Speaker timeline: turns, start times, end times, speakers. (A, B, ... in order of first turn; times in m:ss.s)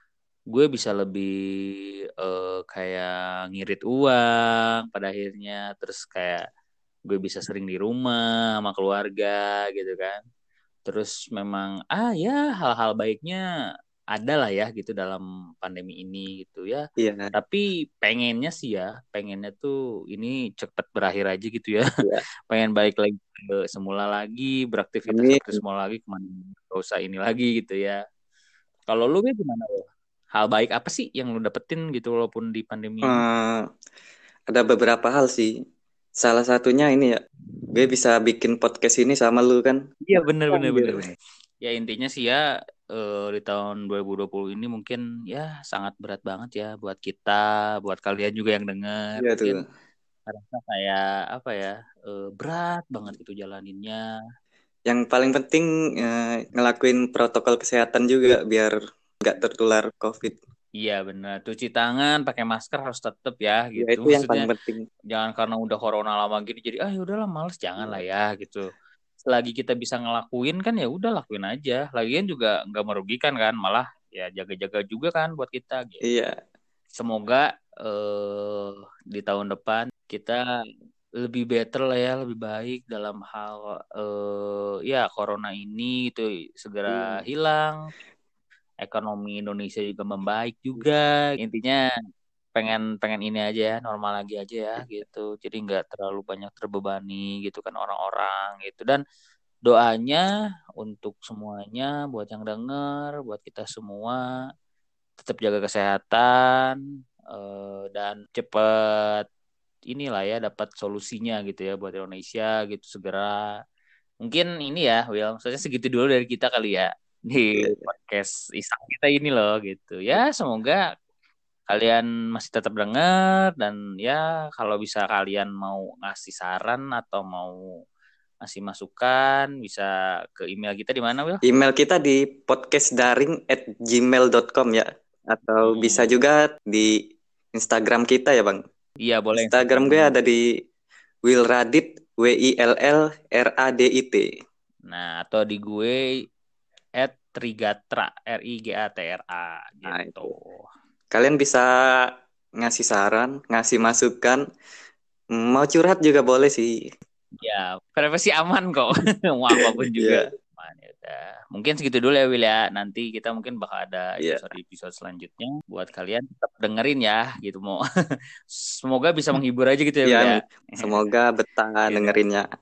0:00.5-0:06.4 A
0:07.1-0:10.2 A
0:10.8-0:13.4 A
0:14.1-0:16.8 A
0:17.0-0:17.3 B
0:17.3-0:21.8 A
0:22.5-0:28.0 A
0:25.1-0:25.6 B
0:28.9-0:33.2 A
0:33.0-0:33.6 B
0:34.5-0:35.5 B
0:36.2-0:37.2 B
0:37.7-0:41.0 B
0:40.0-0:42.4 A
0:42.9-0:49.6 A
0:49.2-0:49.6 B
0:50.3-0:54.0 A
0:54.9-1:00.4 B
1:00.8-1:04.5 A
1:03.8-1:04.8 B
1:05.1-1:08.7 A
1:07.8-1:08.0 B
1:09.2-1:16.0 A
1:16.0-1:16.3 B
1:17.0-1:20.4 A
1:21.2-1:27.9 A
1:26.9-1:27.2 B
1:28.8-1:31.8 A
1:32.5-1:39.0 A
1:39.6-1:40.2 A
1:40.8-1:44.4 A
1:45.2-1:46.8 A
1:47.3-1:49.2 A
1:49.9-1:53.4 A
1:54.2-2:00.8 A
1:57.6-1:57.9 B
2:01.7-2:07.6 A
2:08.4-2:11.4 A
2:11.4-2:16.9 B
2:15.6-2:16.2 A
2:17.5-2:18.6 B
2:19.0-2:20.1 A
2:19.4-2:20.4 B
2:21.2-2:24.3 B
2:24.9-2:26.0 A
2:27.0-2:30.7 A
2:29.8-2:30.3 B
2:31.1-2:32.1 B
2:32.6-2:34.4 B
2:35.3-2:36.8 B
2:37.4-2:47.8 A
2:39.6-2:40.2 B
2:48.5-2:51.0 A
2:50.1-2:52.5 B
2:51.9-2:52.2 A